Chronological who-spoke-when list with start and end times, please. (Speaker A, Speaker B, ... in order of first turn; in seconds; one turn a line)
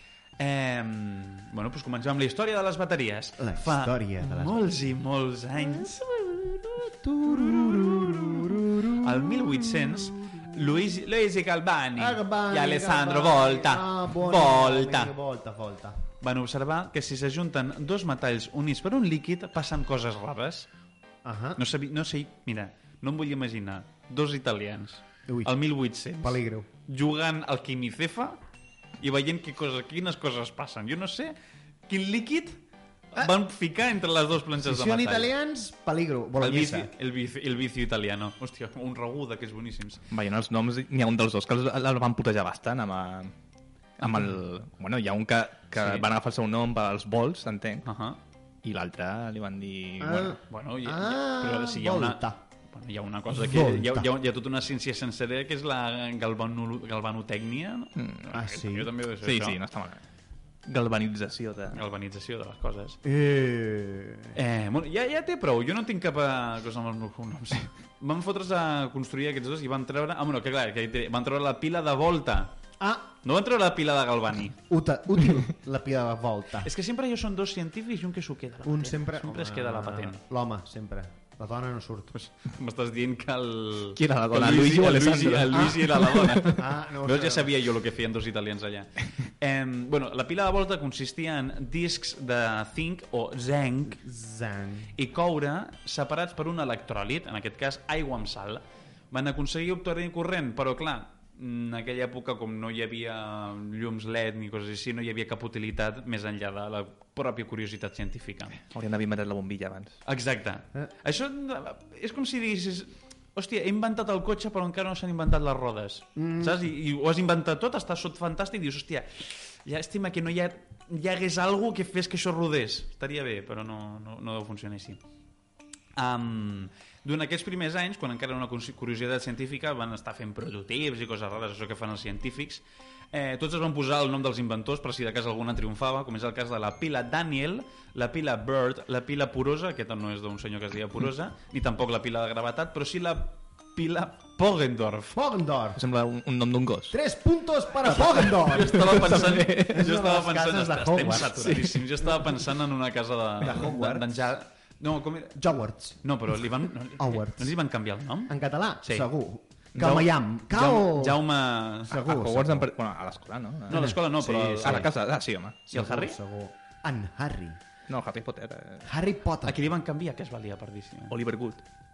Speaker A: 0.4-6.1
Speaker B: 3.4-4.6
Speaker B: 5.6-10.8
Speaker A: 7.3-15.1
Speaker B: 12.0-16.0
Speaker A: 16.2-20.7
Speaker B: 21.2-21.6
Speaker A: 21.6-28.4
Speaker B: 25.3-25.5
Speaker B: 26.2-26.7
Speaker A: 29.0-31.4
Speaker A: 31.9-32.6
Speaker A: 33.1-35.3
Speaker B: 34.6-36.9
Speaker A: 36.4-40.0
Speaker C: 40.1-43.3
Speaker A: 44.0-44.3
Speaker C: 44.0-47.9
Speaker A: 45.8-46.1
Speaker A: 47.8-48.2
Speaker C: 48.6-50.4
Speaker B: 50.0-52.4
Speaker A: 50.5-59.6
Speaker B: 53.3-54.1
Speaker C: 58.0-58.3
Speaker B: 58.3-58.9
Speaker C: 59.2-60.0
Speaker C: 60.7-61.8
Speaker A: 61.7-63.0
Speaker B: 63.0-64.4
Speaker A: 64.3-72.5
Speaker B: 72.8-73.1
Speaker A: 73.2-74.6
Speaker B: 74.7-76.7
Speaker A: 76.6-80.2
Speaker B: 78.6-82.1
Speaker A: 82.1-94.0
Speaker C: 84.0-86.5
Speaker B: 86.4-87.5
Speaker B: 93.9-94.9
Speaker A: 95.0-108.6
Speaker C: 108.7-110.0
Speaker A: 110.1-125.0
Speaker B: 116.2-116.6
Speaker A: 126.0-145.2
Speaker B: 145.2-145.8
Speaker C: 145.8-147.0
Speaker B: 146.9-151.7
Speaker A: 147.8-155.4
Speaker C: 148.6-149.8
Speaker B: 153.4-154.3
Speaker B: 155.4-156.0
Speaker A: 156.0-159.1
Speaker B: 157.0-157.5
Speaker B: 158.3-161.2
Speaker A: 159.8-162.0
Speaker B: 161.9-162.7
Speaker C: 161.9-165.8
Speaker A: 163.7-164.9
Speaker B: 163.7-164.9
Speaker B: 165.7-167.6
Speaker A: 165.7-166.2
Speaker C: 167.9-168.9
Speaker B: 168.8-169.7
Speaker A: 169.4-171.2
Speaker C: 171.1-171.6